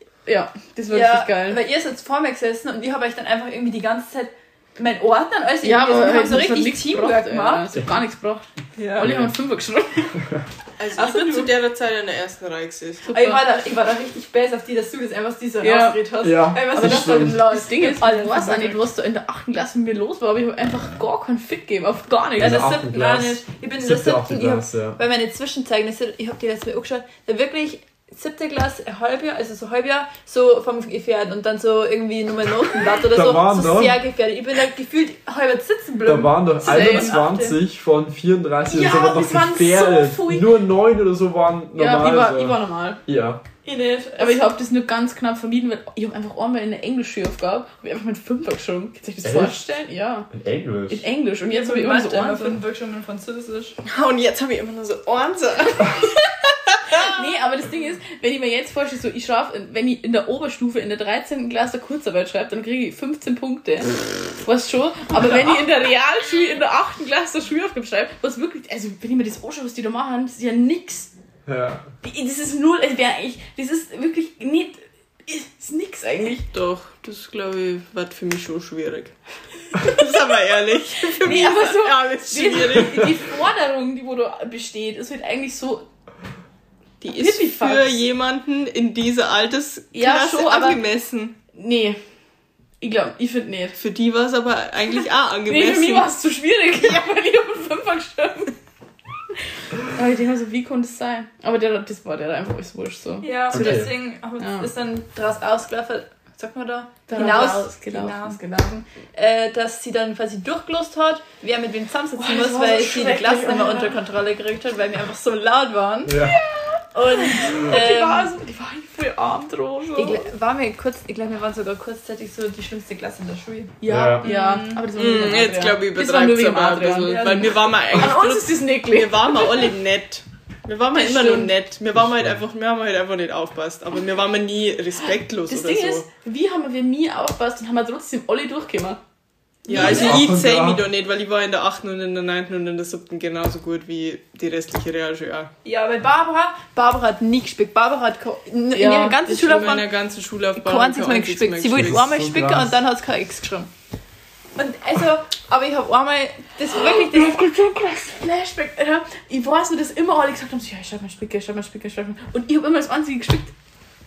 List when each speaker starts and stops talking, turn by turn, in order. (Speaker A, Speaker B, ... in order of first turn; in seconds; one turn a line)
Speaker A: 0.2-1.6
Speaker B: 0.9-7.7
Speaker A: 5.6-8.4
Speaker B: 8.8-9.1
Speaker A: 8.9-10.2
Speaker C: 9.0-9.3
Speaker C: 10.2-10.4
Speaker D: 10.8-13.1
Speaker B: 11.0-11.4
Speaker A: 13.1-13.4
Speaker B: 13.1-18.8
Speaker A: 15.6-16.0
Speaker C: 16.2-17.5
Speaker A: 16.6-22.7
Speaker C: 22.4-25.0
Speaker B: 22.4-37.6
Speaker C: 33.1-34.0
Speaker C: 36.0-43.4
Speaker A: 36.6-37.3
Speaker A: 38.7-40.5
Speaker A: 41.8-43.0
Speaker B: 43.6-44.5
Speaker A: 44.2-50.3
Speaker C: 49.2-49.8
Speaker C: 50.3-51.0
Speaker A: 50.9-52.6
Speaker B: 51.4-53.8
Speaker D: 53.8-56.1
Speaker A: 56.9-71.1
Speaker C: 71.5-71.9
Speaker A: 72.0-76.5
Speaker D: 76.5-79.2
Speaker D: 79.7-83.2
Speaker A: 81.1-85.8
Speaker C: 82.8-83.1
Speaker D: 87.0-91.3
Speaker A: 87.1-88.0
Speaker A: 89.9-90.8
Speaker A: 91.5-92.0
Speaker A: 92.8-93.8
Speaker D: 93.8-96.1
Speaker A: 95.5-98.5
Speaker A: 99.8-103.8
Speaker B: 103.2-116.4
Speaker C: 103.5-103.9
Speaker A: 104.4-104.7
Speaker A: 107.1-108.4
Speaker A: 112.2-113.9
Speaker C: 116.0-116.4
Speaker A: 116.5-120.2
Speaker B: 116.9-118.3
Speaker B: 120.0-124.9
Speaker A: 123.8-129.7
Speaker C: 123.9-124.3
Speaker D: 124.9-136.1
Speaker B: 127.0-127.7
Speaker A: 130.9-131.5
Speaker C: 131.9-132.4
Speaker A: 135.5-139.0
Speaker D: 139.6-145.5
Speaker A: 139.7-140.2
Speaker C: 139.7-140.8
Speaker B: 145.6-149.9
Speaker A: 148.7-149.3
Speaker D: 149.3-152.0
Speaker B: 150.6-153.7
Speaker C: 151.7-152.7
Speaker B: 154.6-157.4
Speaker A: 156.8-163.5